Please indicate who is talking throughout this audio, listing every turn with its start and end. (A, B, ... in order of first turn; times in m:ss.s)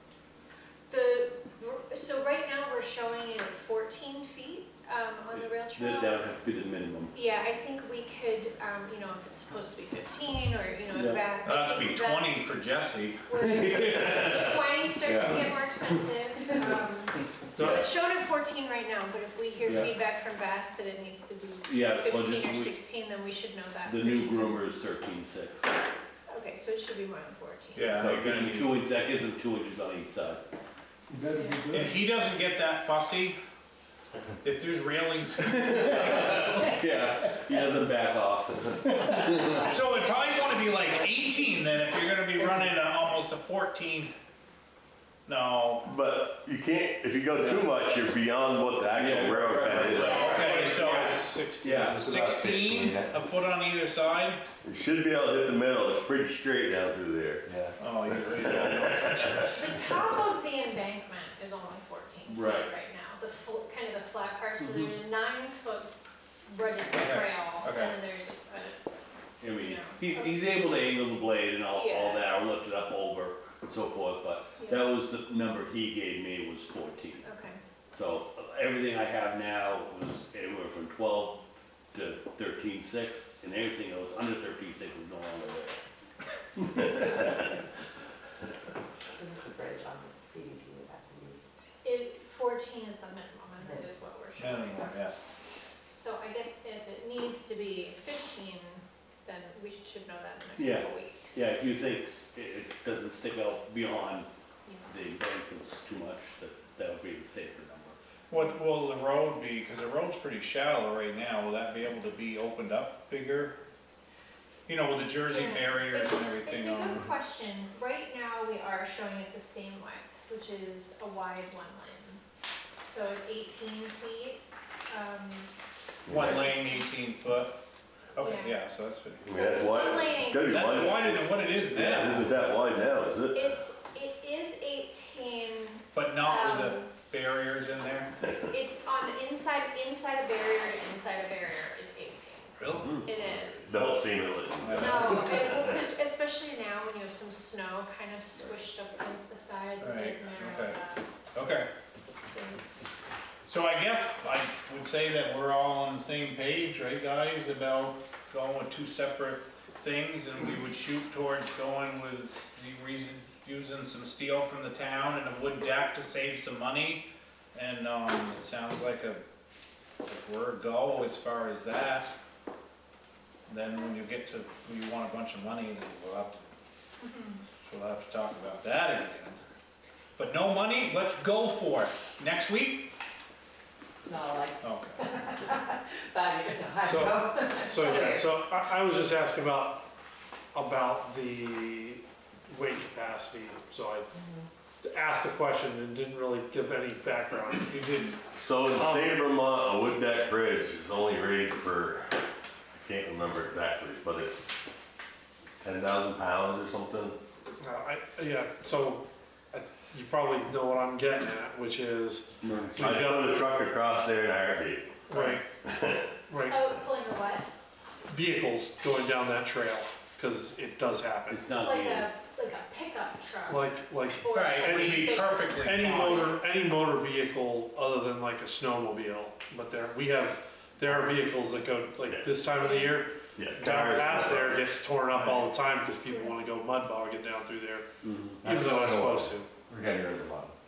0:00.9-0:06.2 A
0:05.3-0:07.2 B
0:07.1-0:12.6 A
0:10.9-0:11.2 B
0:11.4-0:13.2 C
0:13.3-0:24.6 A
0:13.4-0:14.6 B
0:15.0-0:15.4 D
0:17.6-0:17.8 E
0:19.6-0:19.9 B
0:21.7-0:22.7 B
0:23.8-0:25.7 B
0:26.3-0:28.1 A
0:27.8-0:28.7 C
0:27.9-0:30.4 B
0:31.3-0:31.8 A
0:31.4-0:31.8 F
0:31.7-0:33.4 C
0:34.4-0:36.8 C
0:35.6-0:39.6 B
0:39.4-0:41.3 A
0:39.5-0:44.1 C
0:45.3-0:45.9 C
0:45.9-0:50.4 D
0:48.9-0:51.0 B
0:49.8-0:52.0 E
0:49.8-0:51.4 C
0:50.1-0:50.3 A
0:51.6-0:52.2 B
0:51.9-0:53.1 F
0:52.0-0:54.4 C
0:54.6-0:57.4 D
0:57.5-0:57.7 F
0:57.8-0:59.9 C
0:58.3-0:59.7 D
0:58.5-0:59.5 E
0:59.5-1:05.9 A
1:02.3-1:02.7 B
1:04.6-1:04.9 B
1:06.5-1:08.8 A
1:06.9-1:08.0 C
1:09.4-1:17.3 B
1:09.5-1:10.5 A
1:11.7-1:12.3 A
1:14.6-1:14.9 A
1:17.2-1:17.6 A
1:17.9-1:21.4 B
1:21.9-1:25.8 B
1:26.6-1:27.1 B
1:29.2-1:31.4 G
1:31.8-1:35.0 A
1:34.4-1:35.1 C
1:36.0-1:41.6 A
1:40.6-1:44.3 B
1:44.9-1:48.0 B
1:48.3-1:53.6 C
1:54.7-1:57.1 C
1:55.3-2:02.2 A
2:02.8-2:05.5 A
2:06.1-2:06.4 D
2:06.1-2:07.6 C
2:06.2-2:06.9 A
2:08.2-2:09.2 C
2:08.2-2:08.6 A
2:09.2-2:13.6 D
2:09.3-2:11.0 A
2:10.5-2:12.3 C
2:13.3-2:16.9 A
2:15.9-2:18.1 C
2:18.5-2:23.8 A
2:22.6-2:23.0 C
2:22.8-2:23.1 B
2:23.4-2:25.8 D
2:23.7-2:24.1 C
2:24.6-2:25.4 C
2:24.8-2:31.0 A
2:29.8-2:30.8 C
2:31.4-2:31.7 C
2:32.3-2:32.6 A
2:33.5-2:49.2 C
2:50.1-2:52.1 C
2:53.5-2:56.5 C
2:57.0-2:57.4 A
2:57.6-2:59.4 C
3:00.2-3:02.9 C
3:04.1-3:08.4 G
3:04.6-3:05.0 C
3:06.8-3:09.9 E
3:10.5-3:14.1 E
3:14.2-3:14.5 G
3:14.8-3:17.8 E
3:17.7-3:18.2 C
3:18.4-3:22.1 D
3:18.7-3:19.2 E
3:22.7-3:24.7 D
3:25.6-3:27.2 D
3:27.6-3:33.4 E
3:32.4-3:32.9 B
3:32.8-3:34.9 D
3:35.1-3:35.4 E
3:35.1-3:35.4 C
3:35.6-3:36.1 D
3:36.3-3:36.6 E
3:36.5-3:37.5 A
3:38.1-3:41.4 E
3:41.3-3:42.1 B
3:41.6-3:45.6 A
3:43.5-3:57.9 E
3:44.3-3:46.3 C
3:52.0-3:52.3 D
3:52.6-3:53.0 A
3:53.4-3:54.7 D
3:56.1-3:56.3 A
3:58.0-3:58.4 B
3:58.4-4:00.5 F
3:58.4-3:59.5 E